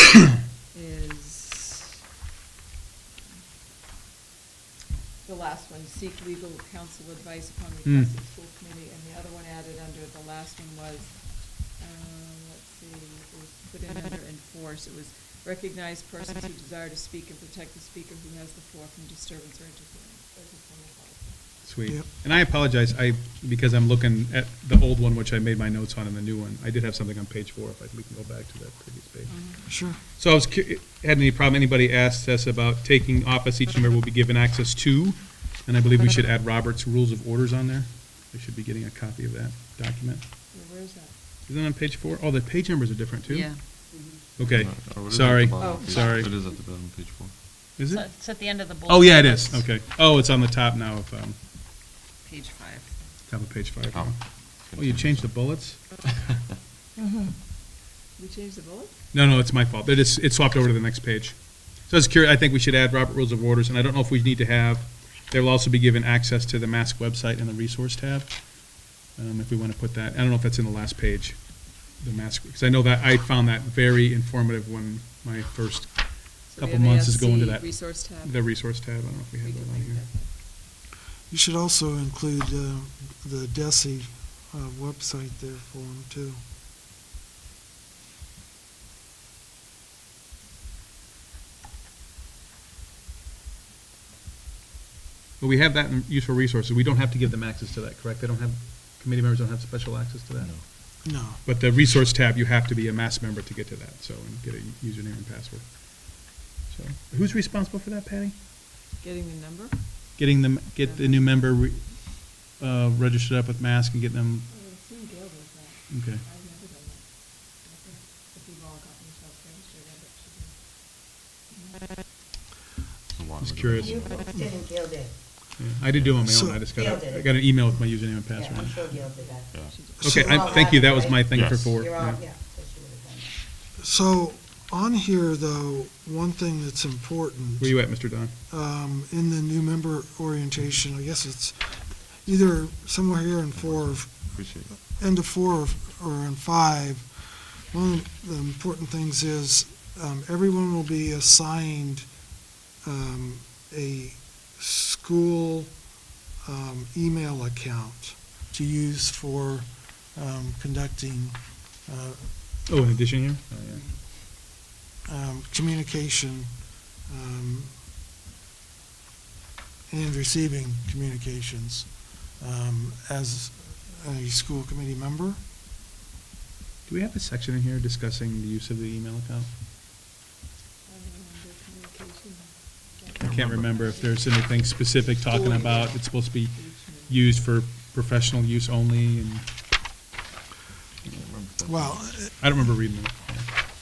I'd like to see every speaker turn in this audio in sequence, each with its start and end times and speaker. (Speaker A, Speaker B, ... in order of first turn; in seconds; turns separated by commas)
Speaker A: 0.7-1.8, Speaker A: 5.2-21.4, Speaker B: 7.8-8.1, Speaker B: 21.6-40.2, Speaker C: 29.3-30.0, Speaker D: 29.7-30.0, Speaker C: 35.9-36.3, Speaker A: 40.5-41.2, Speaker B: 41.5-46.3, Speaker C: 43.3-43.6, Speaker E: 43.9-44.4, Speaker F: 44.5-47.4, Speaker A: 45.6-46.2, Speaker B: 47.8-48.1, Speaker C: 47.9-49.8, Speaker B: 48.7-51.4, Speaker C: 52.2-53.0, Speaker B: 53.3-55.9, Speaker F: 53.9-56.6, Speaker A: 57.0-57.6, Speaker A: 58.1-59.0, Speaker B: 59.1-80.2, Speaker A: 76.5-80.4, Speaker D: 81.3-86.4, Speaker B: 95.4-100.5, Speaker D: 101.0-101.4, Speaker B: 101.5-108.4, Speaker A: 109.0-111.6, Speaker B: 110.2-114.5, Speaker A: 114.5-122.0, Speaker B: 115.9-116.2, Speaker F: 123.1-124.4, Speaker B: 123.4-124.0, Speaker E: 123.8-125.4, Speaker B: 125.6-129.0, Speaker F: 125.9-126.3, Speaker D: 126.2-126.6, Speaker E: 126.7-127.7, Speaker E: 128.3-133.5, Speaker A: 128.9-131.0, Speaker F: 129.5-130.0, Speaker B: 130.0-132.2, Speaker F: 131.3-132.0, Speaker D: 133.8-152.2, Speaker B: 137.6-138.3, Speaker F: 143.5-144.8, Speaker D: 152.8-155.8, Speaker D: 156.4-162.9, Speaker B: 162.7-163.8, Speaker C: 163.7-164.0, Speaker D: 165.1-167.8, Speaker D: 169.9-175.4, Speaker B: 176.9-179.5, Speaker A: 180.8-187.6, Speaker B: 183.2-189.7, Speaker F: 191.0-192.3, Speaker D: 191.7-192.6, Speaker B: 192.2-193.5